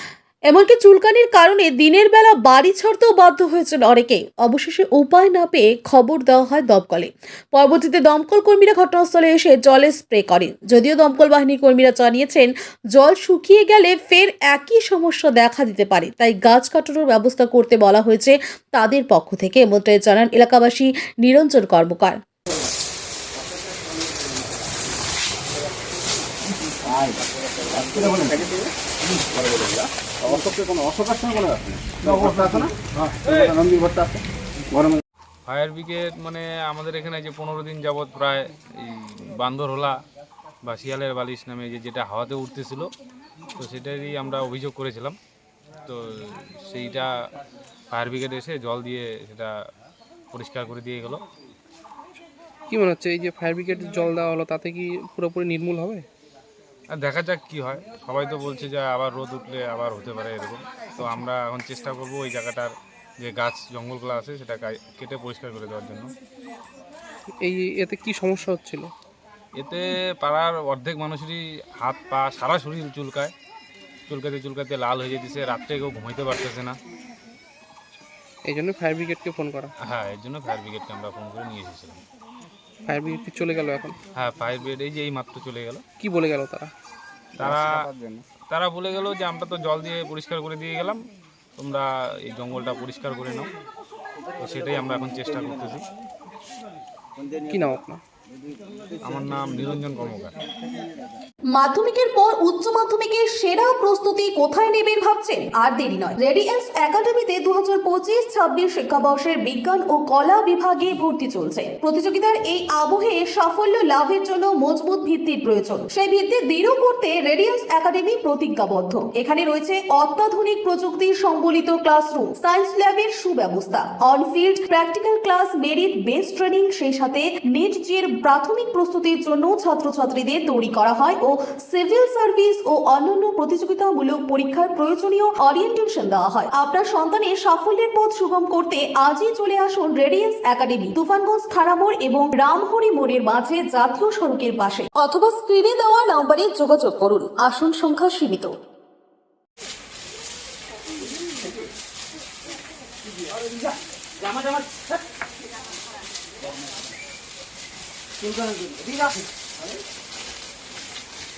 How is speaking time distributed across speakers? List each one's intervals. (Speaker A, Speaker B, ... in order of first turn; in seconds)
Speaker A: 0.5-22.2, 101.5-148.5
Speaker B: 26.9-34.2, 34.7-35.0, 87.4-88.2, 158.3-159.0
Speaker C: 35.5-40.0, 40.6-42.9, 43.6-45.2, 45.9-47.1, 47.9-49.5, 50.3-51.2, 56.9-66.1, 69.6-73.3, 74.1-76.8, 79.8-82.0, 84.2-85.8, 87.4-91.0, 91.6-93.5, 94.4-95.8, 99.0-100.4
Speaker D: 52.7-56.0, 61.0-61.3, 67.4-68.9, 78.5-79.7, 82.9-84.0, 86.0-86.7, 97.5-98.0